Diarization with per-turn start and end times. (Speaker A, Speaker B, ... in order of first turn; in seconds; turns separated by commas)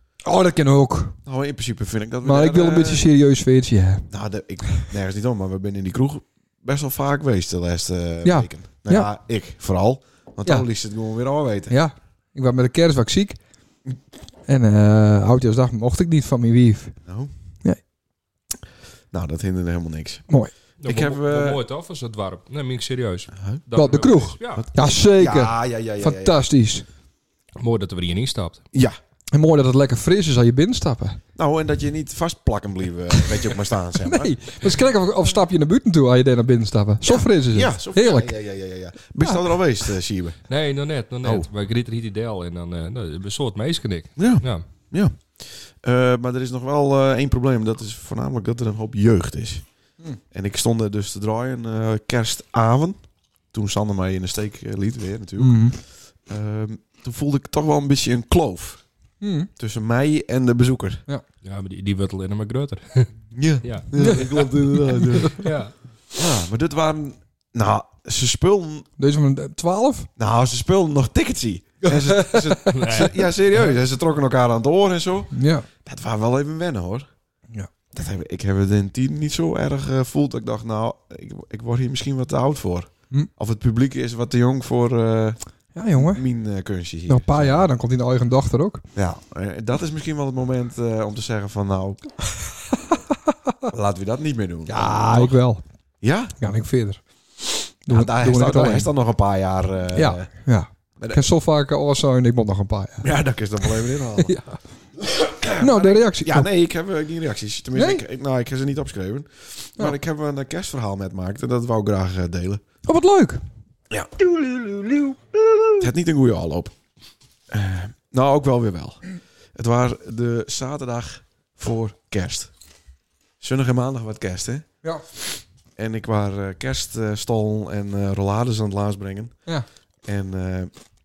Speaker A: 0.2-1.2, Speaker B: 1.2-3.1, Speaker A: 2.2-4.1, Speaker B: 4.1-11.8, Speaker A: 8.2-9.1, Speaker A: 11.7-13.4, Speaker A: 14.5-17.0, Speaker B: 17.1-17.3, Speaker B: 19.1-20.2, Speaker B: 20.8-21.6, Speaker C: 20.8-24.6, Speaker B: 23.3-23.6, Speaker A: 23.7-26.8, Speaker B: 24.5-26.4, Speaker C: 27.6-28.6, Speaker A: 29.3-31.2, Speaker B: 31.3-34.4, Speaker A: 34.0-38.3, Speaker B: 37.0-40.4, Speaker C: 40.5-44.6, Speaker B: 41.2-41.5, Speaker B: 44.2-49.6, Speaker B: 50.3-53.0, Speaker B: 53.5-58.8, Speaker A: 55.4-55.8, Speaker A: 59.2-59.5, Speaker B: 59.6-61.0, Speaker C: 61.4-63.1, Speaker B: 63.3-65.5, Speaker C: 63.6-64.4, Speaker A: 64.0-65.3, Speaker C: 65.3-65.7, Speaker B: 66.2-68.9, Speaker A: 69.0-70.1, Speaker B: 70.2-77.1, Speaker A: 71.8-72.8, Speaker C: 72.7-73.3, Speaker A: 75.3-75.7, Speaker B: 77.9-85.4, Speaker A: 85.7-86.2, Speaker B: 86.0-87.6, Speaker A: 87.1-88.8, Speaker B: 88.9-92.1, Speaker A: 92.7-93.0, Speaker B: 93.7-95.3, Speaker A: 94.7-95.6, Speaker B: 96.0-96.4, Speaker A: 96.4-97.0, Speaker A: 97.8-98.9, Speaker B: 97.9-100.3, Speaker A: 99.9-103.1, Speaker B: 101.0-101.2, Speaker B: 103.0-104.3, Speaker A: 104.2-104.6, Speaker B: 105.0-112.6, Speaker A: 105.6-106.5, Speaker A: 107.7-108.0, Speaker A: 112.8-113.4, Speaker B: 113.9-114.8, Speaker B: 115.8-116.7, Speaker B: 117.5-122.5, Speaker B: 123.4-129.3, Speaker B: 130.0-130.7